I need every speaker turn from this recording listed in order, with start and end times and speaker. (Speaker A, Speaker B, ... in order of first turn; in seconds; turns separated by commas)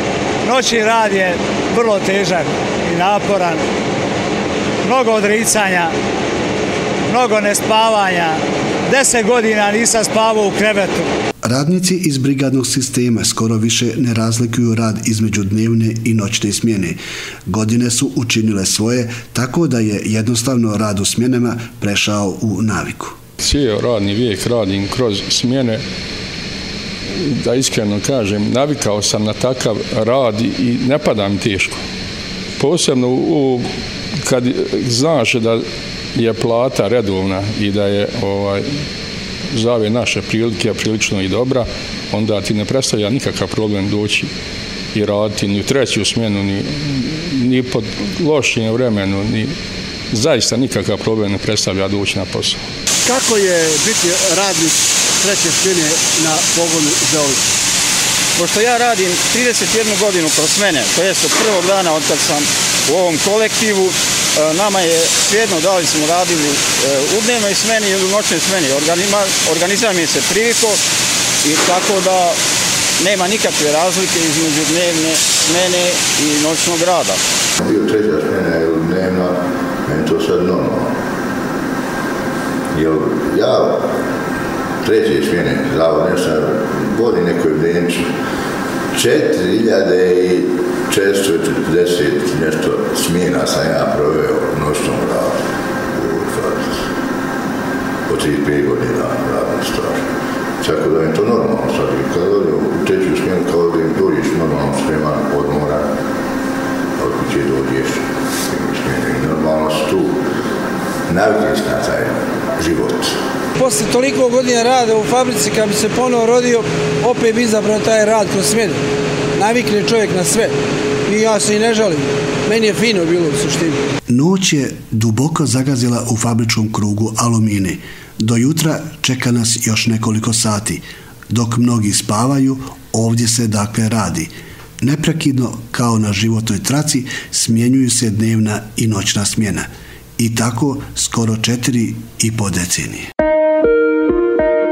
Speaker A: 0.4-3.6, Speaker A: 4.8-5.9, Speaker A: 7.1-11.1, Speaker B: 11.4-23.2, Speaker C: 23.4-25.8, Speaker C: 27.2-31.8, Speaker C: 32.6-33.7, Speaker C: 34.2-35.6, Speaker C: 36.1-38.6, Speaker C: 39.5-44.3, Speaker C: 44.9-49.5, Speaker C: 50.1-52.6, Speaker D: 53.0-57.4, Speaker E: 58.4-70.8, Speaker E: 71.4-72.4, Speaker E: 73.0-77.2, Speaker F: 77.6-80.9, Speaker F: 82.7-83.9, Speaker F: 84.8-88.1, Speaker F: 88.9-96.9, Speaker F: 98.1-100.1, Speaker F: 100.6-105.9, Speaker F: 107.0-110.2, Speaker F: 111.1-113.1, Speaker G: 113.6-118.8, Speaker G: 119.4-120.5, Speaker G: 121.1-123.8, Speaker B: 124.1-143.1